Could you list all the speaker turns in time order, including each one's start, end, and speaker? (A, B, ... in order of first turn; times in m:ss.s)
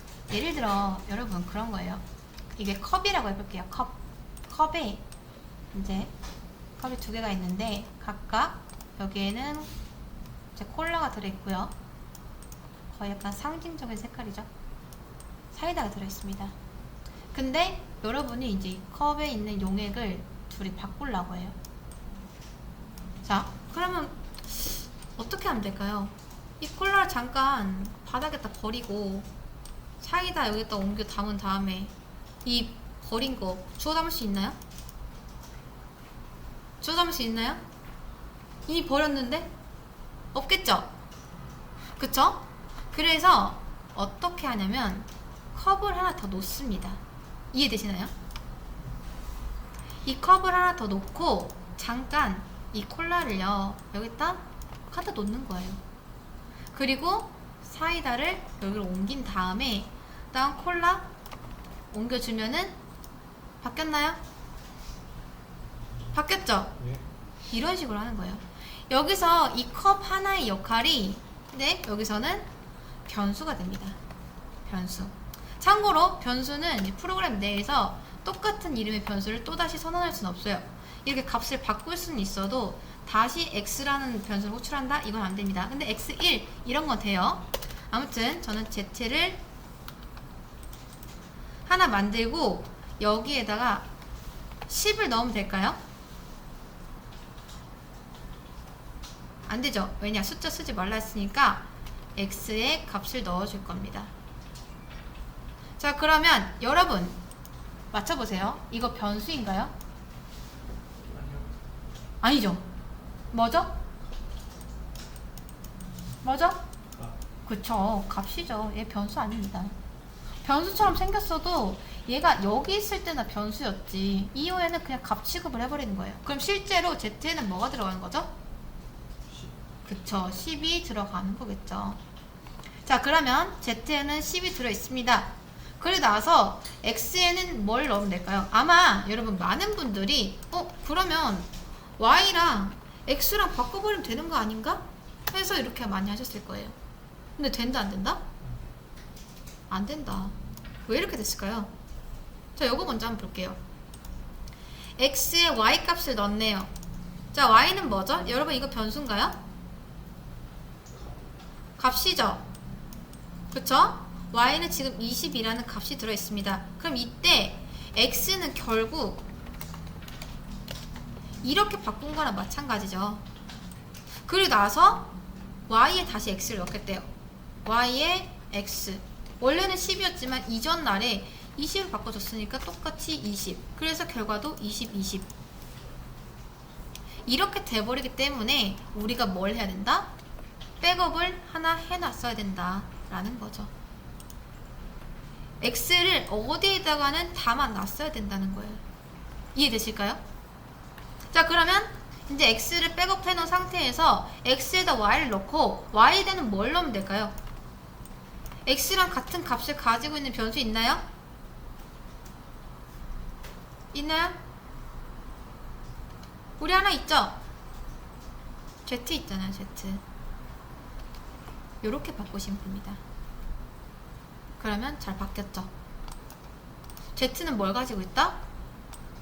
0:00.3-0:02.0 A
0:02.6-0:05.0 A
0:05.7-0:06.1 A
0:06.8-0:09.7 A
0:10.6-0:11.7 A
0:12.9-0:14.5 A
0:15.5-0:16.5 A
0:17.3-0:21.6 A
0:23.2-0:29.3 A
0:30.0-0:31.9 A
0:32.4-0:34.6 A
0:36.8-0:37.6 A
0:38.7-0:39.5 A
0:40.3-0:40.9 A
0:42.0-0:47.0 A
0:47.5-0:48.1 A
0:50.0-0:55.8 A
0:56.7-1:01.1 A
1:01.9-1:02.8 A
1:03.6-1:04.2 A
1:06.1-1:06.7 A
1:06.8-1:07.0 B
1:07.5-1:12.5 A
1:13.0-1:14.0 A
1:14.6-1:29.4 A
1:31.7-1:33.9 A
1:34.7-1:35.8 A
1:39.5-1:44.1 A
1:45.8-1:47.2 A
1:47.9-1:49.7 A
1:51.1-1:51.5 B
1:52.2-1:52.6 A
1:53.3-1:53.8 A
1:56.2-1:56.6 A
1:56.9-1:57.2 B
1:57.4-1:59.7 A
2:00.4-2:08.3 A
2:09.3-2:09.5 B
2:09.8-2:12.0 A
2:12.8-2:26.8 A
2:27.4-2:28.2 A
2:28.4-2:28.7 B
2:29.7-2:31.7 A
2:32.6-2:33.6 A
2:35.0-2:36.7 A
2:37.3-2:39.4 A
2:40.9-2:41.3 B
2:41.8-2:42.4 A
2:43.5-2:49.2 A
2:51.4-2:53.2 A
2:54.2-2:55.2 A
2:55.7-2:57.1 A
2:57.6-3:05.3 A
3:07.3-3:10.1 A
3:10.8-3:13.7 A
3:15.6-3:18.8 A
3:19.5-3:20.2 A
3:21.3-3:27.3 A
3:28.6-3:31.0 A
3:33.9-3:34.4 A
3:36.6-3:37.4 A
3:38.8-3:40.0 A
3:41.8-3:43.0 A
3:44.6-3:45.7 A
3:47.2-3:48.4 A